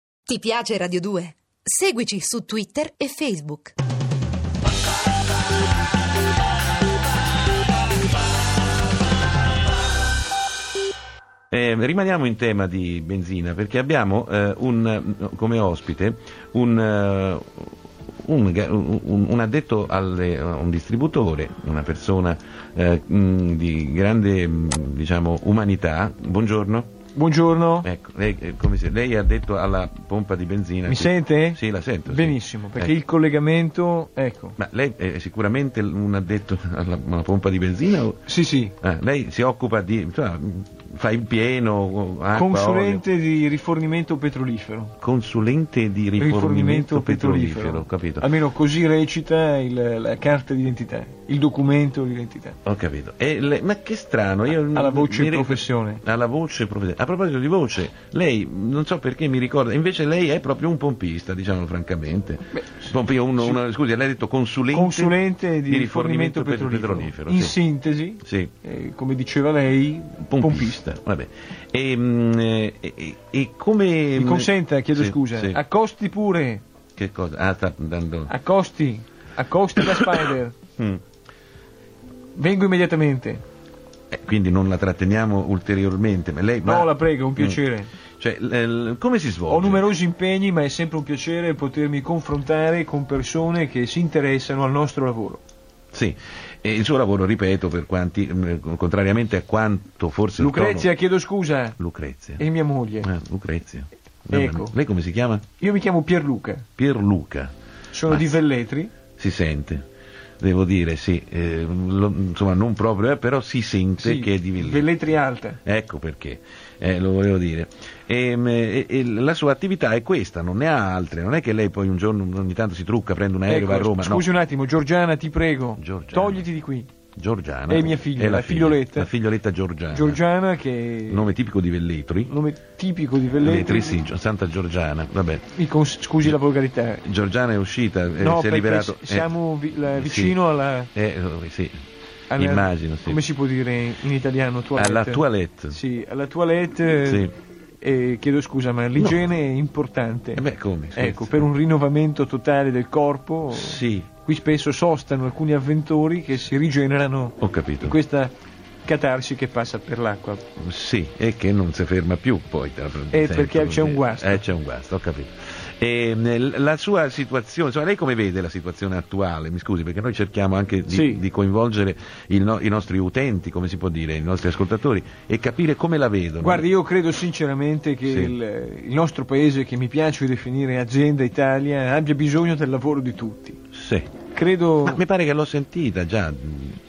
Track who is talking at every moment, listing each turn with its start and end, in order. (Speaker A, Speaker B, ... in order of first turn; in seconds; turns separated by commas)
Speaker A: 0.3-3.8, Speaker B: 11.5-17.7, Speaker B: 18.2-26.9, Speaker C: 27.1-27.9, Speaker B: 27.8-33.0, Speaker C: 30.9-34.6, Speaker B: 34.6-38.2, Speaker C: 38.2-38.7, Speaker B: 38.8-43.0, Speaker C: 42.3-45.0, Speaker B: 45.0-48.3, Speaker C: 46.2-52.6, Speaker B: 52.6-67.6, Speaker C: 54.6-56.0, Speaker C: 62.5-62.8, Speaker C: 64.7-70.8, Speaker B: 68.2-68.5, Speaker B: 70.2-75.6, Speaker C: 74.2-76.6, Speaker B: 77.0-78.3, Speaker C: 78.3-80.6, Speaker C: 82.3-83.4, Speaker B: 84.1-87.6, Speaker C: 86.6-87.9, Speaker B: 88.2-89.9, Speaker C: 89.5-95.4, Speaker B: 95.9-100.9, Speaker C: 100.4-101.8, Speaker B: 101.8-102.5, Speaker C: 102.4-103.1, Speaker B: 103.0-105.5, Speaker C: 104.3-104.7, Speaker C: 105.6-106.7, Speaker B: 106.8-107.5, Speaker C: 107.9-108.9, Speaker B: 108.1-108.4, Speaker B: 109.2-109.8, Speaker B: 110.4-114.9, Speaker C: 114.0-115.6, Speaker B: 115.6-124.3, Speaker C: 123.5-126.9, Speaker B: 125.8-126.5, Speaker B: 127.2-130.2, Speaker C: 127.7-129.1, Speaker C: 129.9-131.3, Speaker B: 131.1-132.3, Speaker C: 132.3-134.0, Speaker B: 133.4-135.5, Speaker C: 135.5-137.0, Speaker B: 137.0-141.8, Speaker C: 138.2-140.9, Speaker C: 142.3-147.3, Speaker B: 142.4-143.2, Speaker B: 144.8-145.8, Speaker B: 147.0-147.3, Speaker C: 147.8-158.3, Speaker B: 150.4-151.5, Speaker B: 153.5-154.1, Speaker B: 157.4-158.0, Speaker C: 158.9-160.4, Speaker B: 160.6-176.7, Speaker C: 163.1-164.4, Speaker C: 170.9-171.2, Speaker C: 176.4-183.6, Speaker B: 178.1-178.3, Speaker B: 183.7-184.1, Speaker C: 184.3-185.0, Speaker B: 184.8-186.8